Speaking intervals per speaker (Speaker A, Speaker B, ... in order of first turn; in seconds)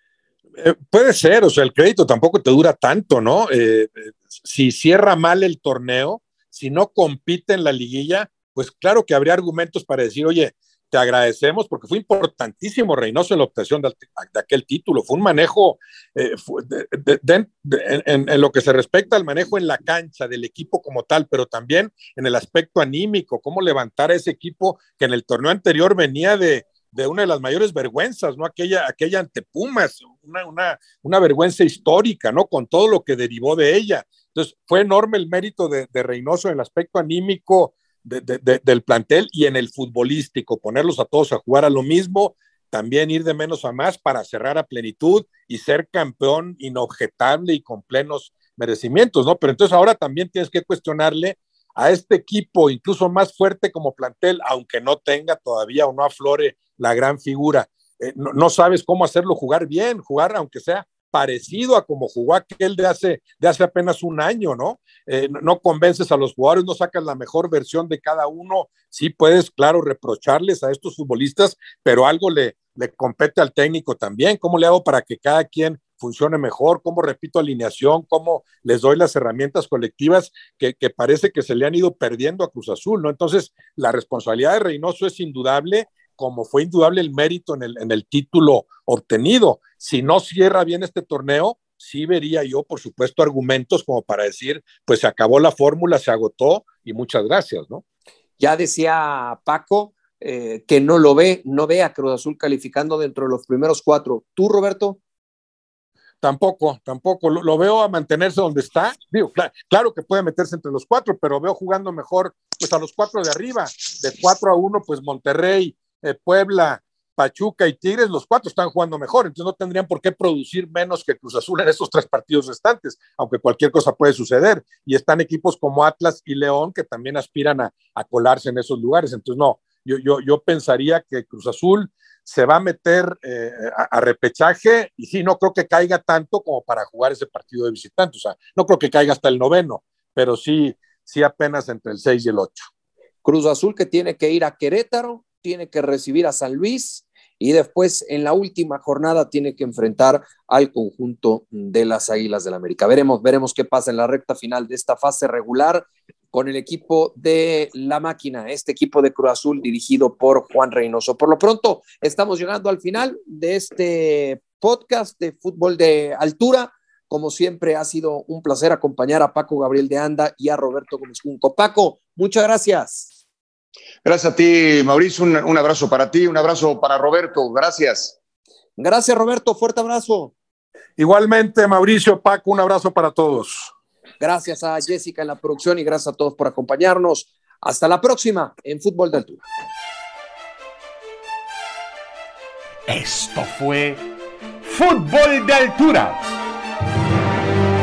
Speaker A: 0.6-97.8, 106.2-142.7, 181.0-183.7
Speaker B: 98.4-105.0, 143.2-173.1, 178.8-180.3, 184.2-189.4
Speaker C: 174.0-178.2
Speaker D: 192.9-194.0, 194.6-196.3